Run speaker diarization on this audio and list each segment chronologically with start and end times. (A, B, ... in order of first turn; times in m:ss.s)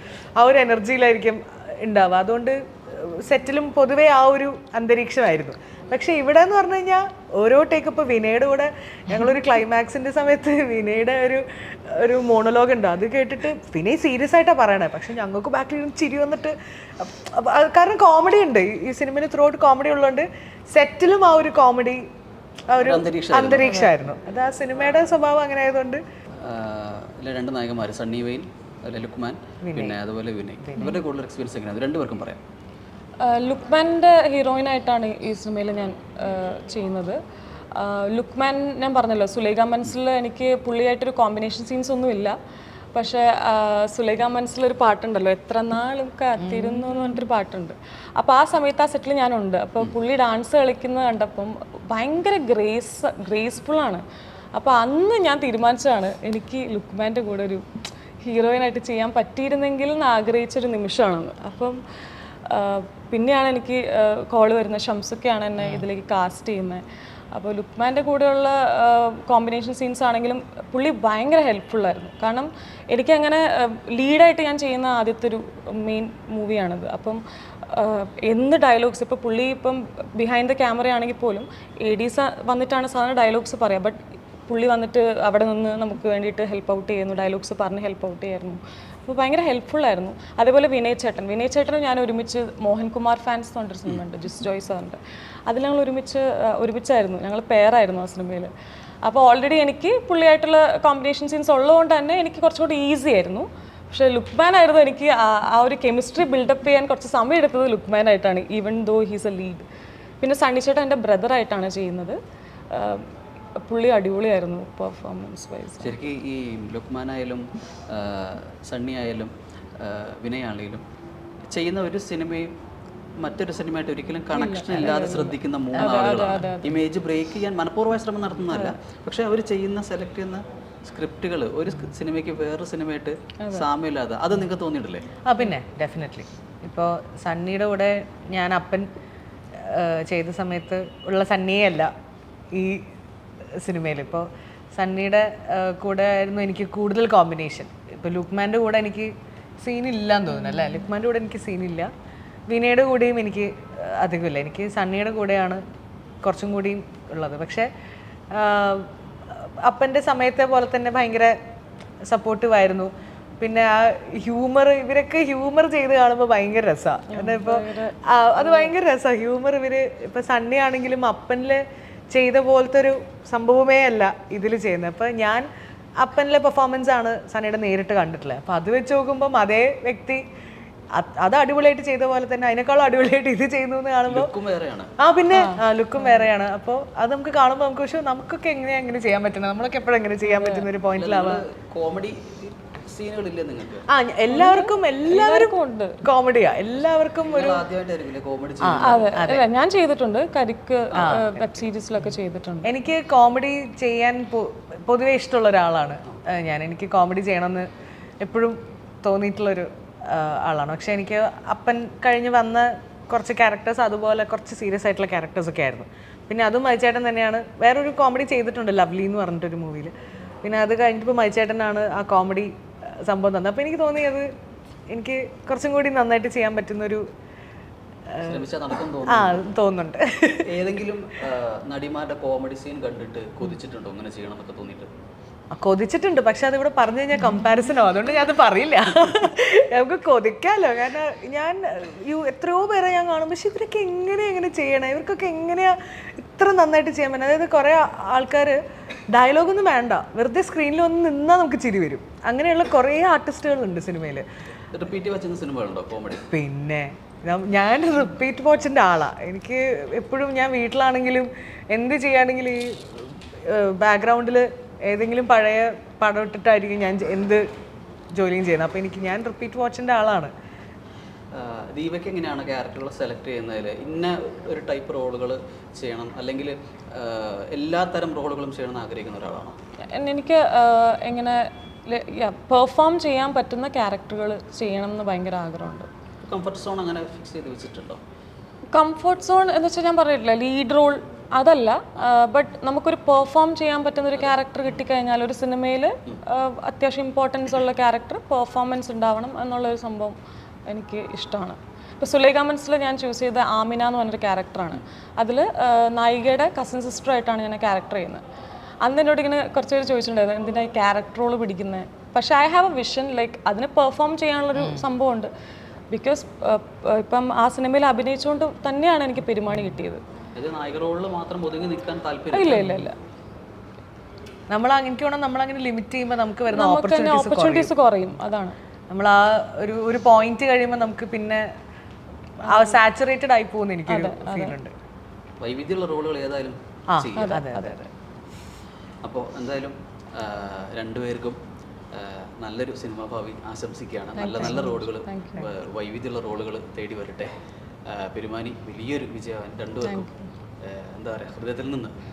0:00.4-0:22.0 A
0:22.7-0:26.0 A
0:22.8-0:23.8 B
0:23.6-0:23.9 C
0:26.4-0:32.4 B
0:29.6-0:30.0 A
0:30.6-0:31.0 A
0:33.2-0:37.2 C
0:37.7-0:42.3 C
0:42.9-0:54.0 C
0:46.4-0:47.2 A
0:54.6-0:57.6 C
0:58.2-1:01.8 C
1:02.5-1:06.8 C
1:05.6-1:05.8 A
1:07.3-1:24.0 C
1:24.5-1:38.5 C
1:39.0-1:49.6 C
1:50.2-1:52.2 C
1:52.7-1:53.1 C
1:53.6-1:56.0 C
1:55.8-2:00.8 B
2:01.5-2:02.5 B
2:03.2-2:15.0 B
2:04.3-2:06.8 C
2:08.5-2:08.7 C
2:13.4-2:13.7 C
2:15.3-2:18.9 A
2:19.6-2:21.9 A
2:22.5-2:22.8 A
2:23.6-2:31.9 A
2:30.3-2:30.8 C
2:32.5-2:35.6 A
2:36.2-2:37.7 A
2:38.3-2:38.9 A
2:39.6-2:41.3 A
2:42.1-2:55.4 A
2:47.1-2:48.7 C
2:56.0-3:00.2 A
3:00.9-3:04.3 A
3:04.1-3:04.9 B
3:05.0-3:11.4 A
3:05.3-3:06.3 C
3:10.2-3:10.7 C
3:10.9-3:13.9 B
3:13.9-3:17.6 A
3:14.3-3:16.0 C
3:17.3-3:19.1 B
3:18.6-3:19.4 A
3:18.8-3:22.7 C
3:21.0-3:21.6 A
3:22.6-3:27.7 A
3:28.2-3:39.9 A
3:40.4-3:42.5 A
3:43.0-3:44.3 A
3:44.9-3:47.0 A
3:48.1-3:48.4 A
3:48.2-3:49.4 B
3:49.1-3:50.5 A
3:50.5-3:54.9 B
3:55.5-4:08.6 A
4:09.1-4:14.2 A
4:14.7-4:16.2 B
4:16.3-4:27.4 A
4:28.1-4:30.3 A
4:31.3-4:39.6 B
4:39.9-4:45.9 C
4:46.2-4:48.0 B
4:48.7-5:00.2 C
5:00.7-5:08.2 C
5:08.8-5:15.3 C
5:14.6-5:14.8 A
5:15.9-5:20.0 C
5:20.3-5:22.8 B
5:22.3-5:23.0 C
5:24.5-5:27.7 A
5:26.5-5:28.6 C
5:28.9-5:31.4 A
5:32.4-5:34.7 A
5:32.5-5:32.8 C
5:33.9-5:34.6 C
5:35.4-5:37.4 B
5:36.9-5:37.8 A
5:37.2-5:37.9 C
5:39.0-5:41.4 B
5:41.9-5:47.3 B
5:44.2-5:45.5 C
5:47.8-5:50.1 B
5:49.8-5:50.2 C
5:50.6-5:51.9 B